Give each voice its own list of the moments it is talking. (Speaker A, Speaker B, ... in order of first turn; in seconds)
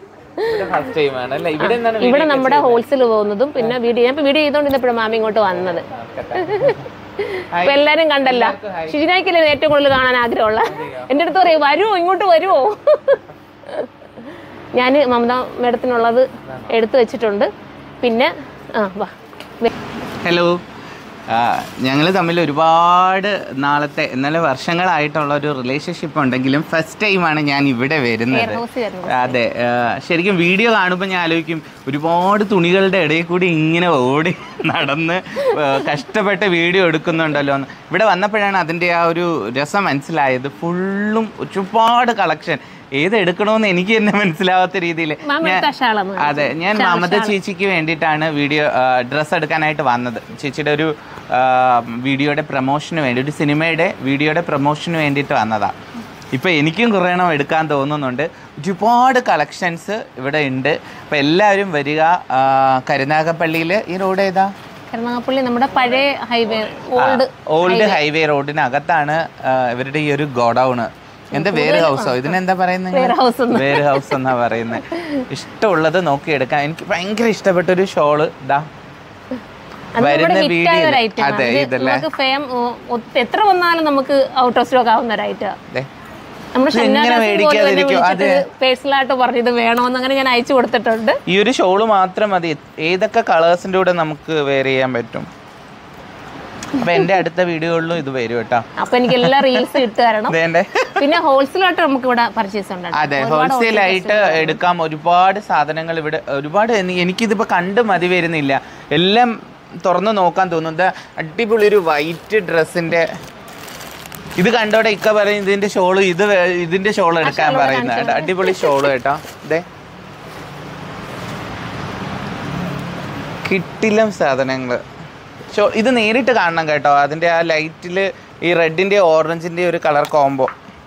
Speaker A: 0.4-2.8, 5.8-6.8, 7.5-8.9, 10.7-11.1, 20.2-20.6, 21.3-45.6, 46.2-55.8, 56.3-64.5, 67.0-78.7, 80.0-82.1, 86.7-88.5, 91.3-95.3, 96.8-99.8, 100.3-101.1, 102.9-113.1, 114.4-119.7, 123.5-124.8, 125.5-130.5
Speaker B: 0.4-0.7, 1.6-17.5, 18.0-19.7, 28.3-29.4, 45.2-47.4, 64.9-68.0, 71.3-72.4, 72.9-74.2, 74.7-75.2, 80.0-85.5, 86.5-91.2, 98.8-100.3, 101.0-104.6, 117.2-118.9